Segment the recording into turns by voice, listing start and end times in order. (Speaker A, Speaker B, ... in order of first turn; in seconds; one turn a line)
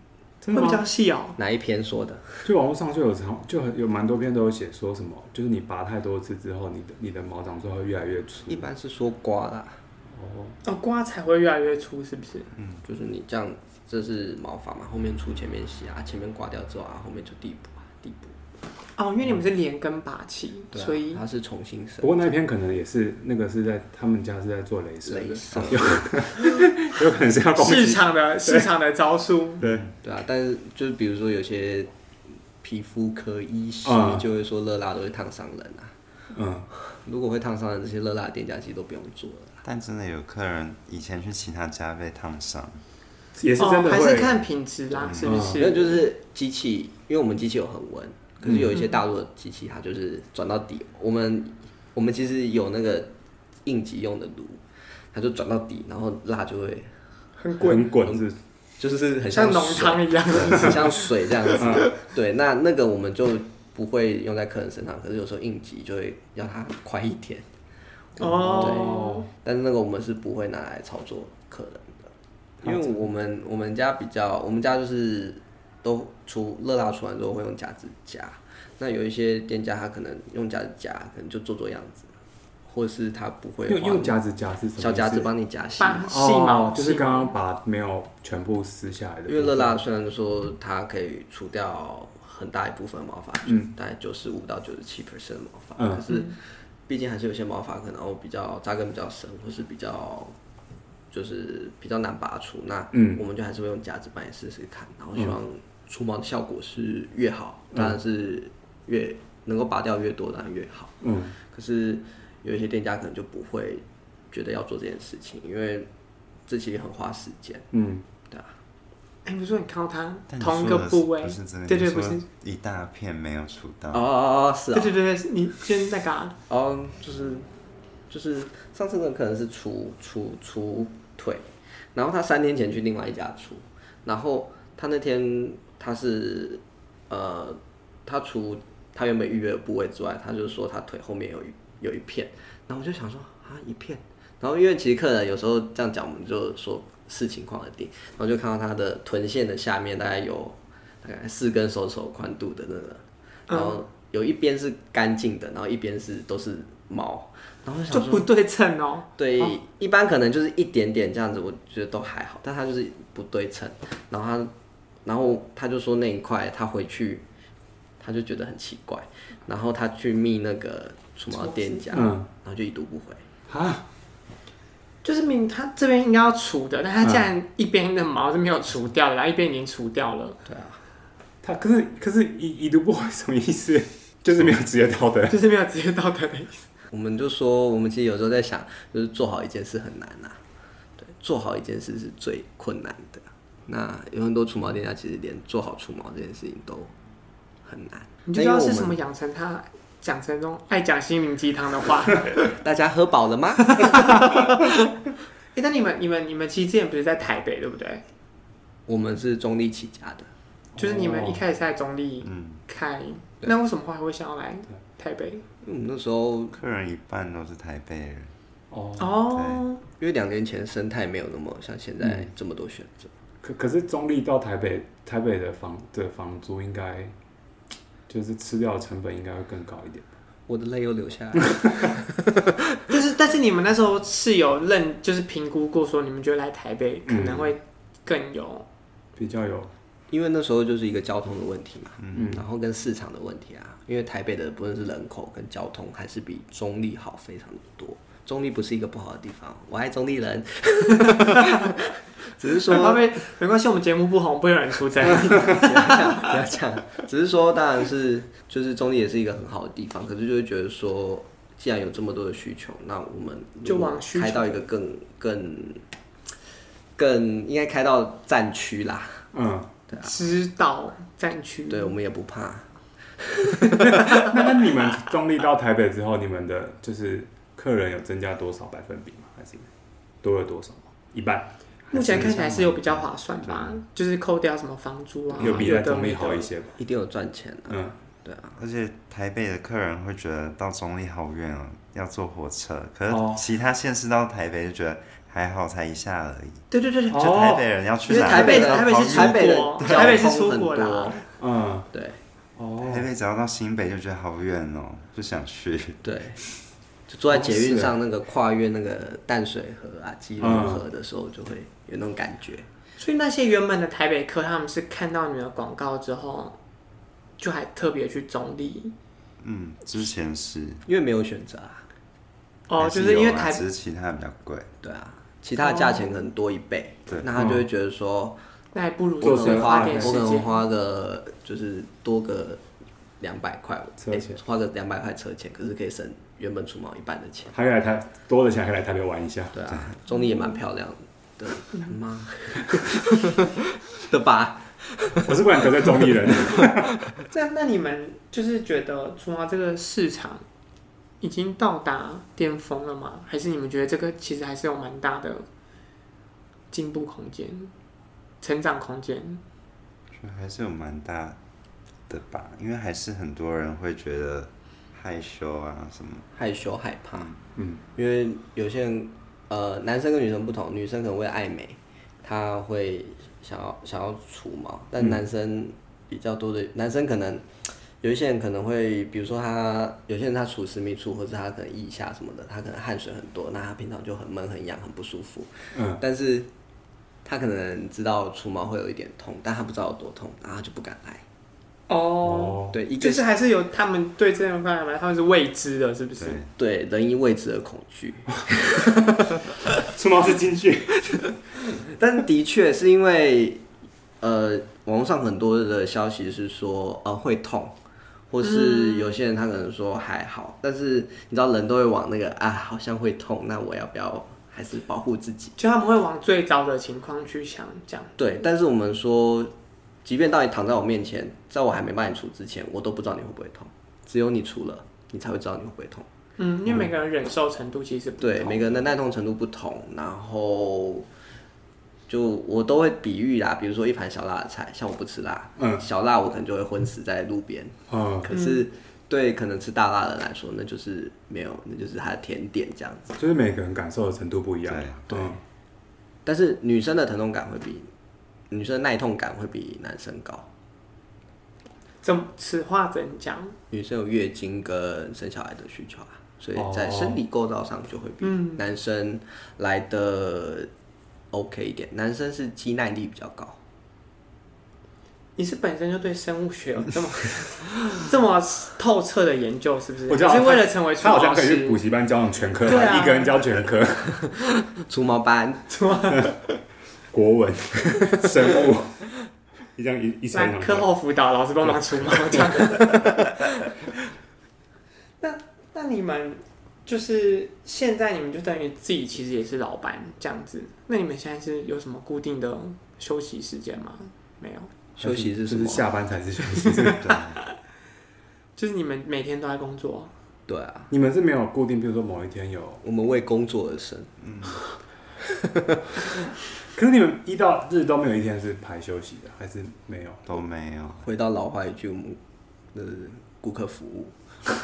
Speaker A: 0.4-0.9
Speaker B: 0.5-1.4
Speaker C: 1.4-2.5
Speaker A: 2.4-8.6
Speaker C: 8.5-9.8
Speaker A: 10.1-10.6
Speaker B: 10.6-12.5
Speaker C: 12.8-18.4
Speaker B: 18.9-21.2
Speaker C: 20.7-22.1
Speaker A: 22.0-28.7
Speaker C: 25.0-26.1
Speaker B: 27.6-29.6
Speaker A: 29.6-29.9
Speaker C: 30.0-31.9
Speaker C: 32.6-35.9
Speaker A: 33.9-34.2
Speaker A: 36.3-36.7
Speaker C: 36.9-39.6
Speaker D: 39.6-42.8
Speaker A: 43.4-44.4
Speaker B: 43.6-46.1
Speaker D: 45.0-45.3
Speaker A: 45.2-45.6
Speaker C: 45.5-53.1
Speaker A: 48.4-48.8
Speaker C: 53.6-54.6
Speaker C: 55.1-56.9
Speaker B: 57.4-57.9
Speaker A: 57.6-58.4
Speaker C: 58.0-58.3
Speaker C: 58.8-67.5
Speaker B: 59.3-61.1
Speaker A: 61.5-61.9
Speaker B: 68.2-69.3
Speaker C: 68.2-72.1
Speaker A: 68.3-69.2
Speaker C: 72.6-82.1
Speaker A: 72.6-72.9
Speaker C: 82.7-84.2
Speaker A: 83.7-85.3
Speaker C: 84.8-86.1
Speaker B: 85.8-87.3
Speaker A: 86.0-89.8
Speaker C: 89.3-100.3
Speaker A: 95.8-96.0
Speaker B: 96.1-96.3
Speaker C: 101.1-115.9
Speaker A: 102.9-103.2
Speaker A: 111.0-111.4
Speaker C: 116.5-117.7
Speaker A: 117.7-118.0
Speaker B: 119.2-122.2
Speaker D: 120.3-124.0
Speaker C: 123.9-125.0
Speaker B: 124.7-126.3
Speaker C: 126.5-127.5
Speaker C: 128.1-158.3
Speaker B: 153.5-153.8
Speaker B: 157.9-159.1
Speaker C: 159.2-164.5
Speaker C: 165.0-167.2
Speaker C: 168.0-173.2
Speaker B: 171.3-172.1
Speaker A: 171.9-172.3
Speaker A: 173.5-173.8
Speaker B: 175.0-180.4
Speaker C: 180.4-180.8
Speaker A: 181.4-185.4
Speaker B: 185.3-186.6
Speaker C: 186.9-190.4
Speaker C: 191.0-196.9
Speaker C: 197.6-199.0
Speaker B: 198.2-202.4
Speaker C: 202.4-204.6
Speaker B: 203.8-204.3
Speaker B: 205.5-208.0
Speaker C: 208.9-210.3
Speaker A: 210.7-211.4
Speaker B: 210.8-215.4
Speaker D: 212.2-212.6
Speaker C: 215.6-216.5
Speaker D: 216.5-218.3
Speaker A: 218.7-219.2
Speaker B: 219.0-219.8
Speaker D: 219.2-219.6
Speaker C: 220.0-223.1
Speaker A: 222.0-222.3
Speaker A: 223.4-227.1
Speaker A: 228.1-230.1
Speaker C: 230.5-232.5
Speaker B: 232.9-238.7
Speaker A: 237.0-237.5
Speaker A: 239.2-239.7
Speaker C: 240.1-253.1
Speaker A: 242.1-242.4
Speaker B: 252.6-256.3
Speaker C: 255.3-265.8
Speaker B: 263.6-264.6
Speaker C: 266.9-269.2
Speaker A: 269.3-269.7
Speaker B: 270.0-271.9
Speaker C: 271.7-272.7
Speaker C: 273.2-274.3
Speaker A: 273.8-279.7
Speaker A: 280.2-283.6
Speaker B: 281.9-286.5
Speaker A: 285.4-286.8
Speaker C: 285.4-285.6
Speaker C: 286.8-288.6
Speaker A: 287.7-287.9
Speaker D: 288.6-300.3
Speaker A: 293.1-293.4
Speaker B: 296.7-297.4
Speaker A: 297.1-297.6
Speaker B: 298.1-301.2
Speaker C: 298.1-301.2
Speaker A: 301.4-301.9
Speaker C: 301.9-302.2
Speaker A: 302.6-303.1
Speaker D: 302.8-306.6
Speaker C: 306.0-306.4
Speaker C: 307.1-312.6
Speaker A: 307.3-307.9
Speaker A: 310.4-310.8
Speaker B: 313.0-316.6
Speaker B: 317.4-318.9
Speaker D: 319.4-320.8
Speaker C: 320.9-321.8
Speaker B: 322.7-323.6
Speaker D: 322.8-324.7
Speaker C: 324.8-328.4
Speaker B: 325.6-326.2
Speaker A: 327.3-327.6
Speaker B: 328.7-330.5
Speaker C: 329.2-332.6
Speaker A: 329.2-330.2
Speaker C: 333.2-337.5
Speaker A: 334.0-334.4
Speaker A: 337.5-339.9
Speaker C: 339.5-346.8
Speaker A: 345.2-347.0
Speaker B: 347.3-350.4
Speaker B: 351.2-355.4
Speaker B: 356.7-357.7
Speaker B: 358.4-359.4
Speaker D: 360.1-361.4
Speaker D: 362.1-366.2
Speaker C: 366.4-367.3
Speaker A: 367.6-367.8
Speaker C: 367.9-386.5
Speaker A: 385.7-386.0
Speaker C: 387.2-391.2
Speaker B: 391.9-396.4
Speaker A: 392.2-392.8
Speaker C: 392.7-393.2
Speaker D: 396.2-396.5
Speaker C: 396.6-399.4
Speaker A: 399.8-401.4
Speaker C: 401.9-403.6
Speaker C: 404.2-407.7
Speaker C: 408.3-415.6
Speaker B: 408.4-409.1
Speaker B: 415.6-418.1
Speaker C: 418.2-419.5
Speaker C: 420.0-426.1
Speaker B: 426.4-428.8
Speaker C: 428.2-431.1
Speaker C: 432.1-443.1
Speaker A: 437.9-438.3
Speaker B: 438.3-438.6
Speaker A: 443.2-445.4
Speaker D: 444.7-444.9
Speaker C: 445.1-445.4
Speaker C: 446.2-447.9
Speaker C: 448.5-450.5
Speaker B: 452.0-453.5
Speaker C: 453.7-460.7
Speaker A: 456.5-457.2
Speaker B: 458.2-458.6
Speaker C: 461.3-463.6
Speaker B: 465.4-471.8
Speaker A: 470.1-474.2
Speaker B: 472.6-473.4
Speaker C: 474.7-475.7
Speaker B: 475.7-476.4
Speaker A: 477.1-479.1
Speaker A: 479.7-480.9
Speaker B: 480.3-483.4
Speaker A: 481.6-482.6
Speaker B: 485.2-494.7
Speaker C: 494.9-495.9
Speaker A: 495.0-497.2
Speaker B: 496.6-497.4
Speaker D: 496.9-497.4
Speaker B: 498.6-500.1
Speaker C: 500.5-500.9
Speaker A: 500.9-502.8
Speaker C: 502.8-504.1
Speaker D: 504.2-504.6
Speaker C: 505.4-505.8
Speaker A: 506.7-510.4
Speaker D: 510.3-511.0
Speaker C: 511.0-512.2
Speaker C: 512.7-514.1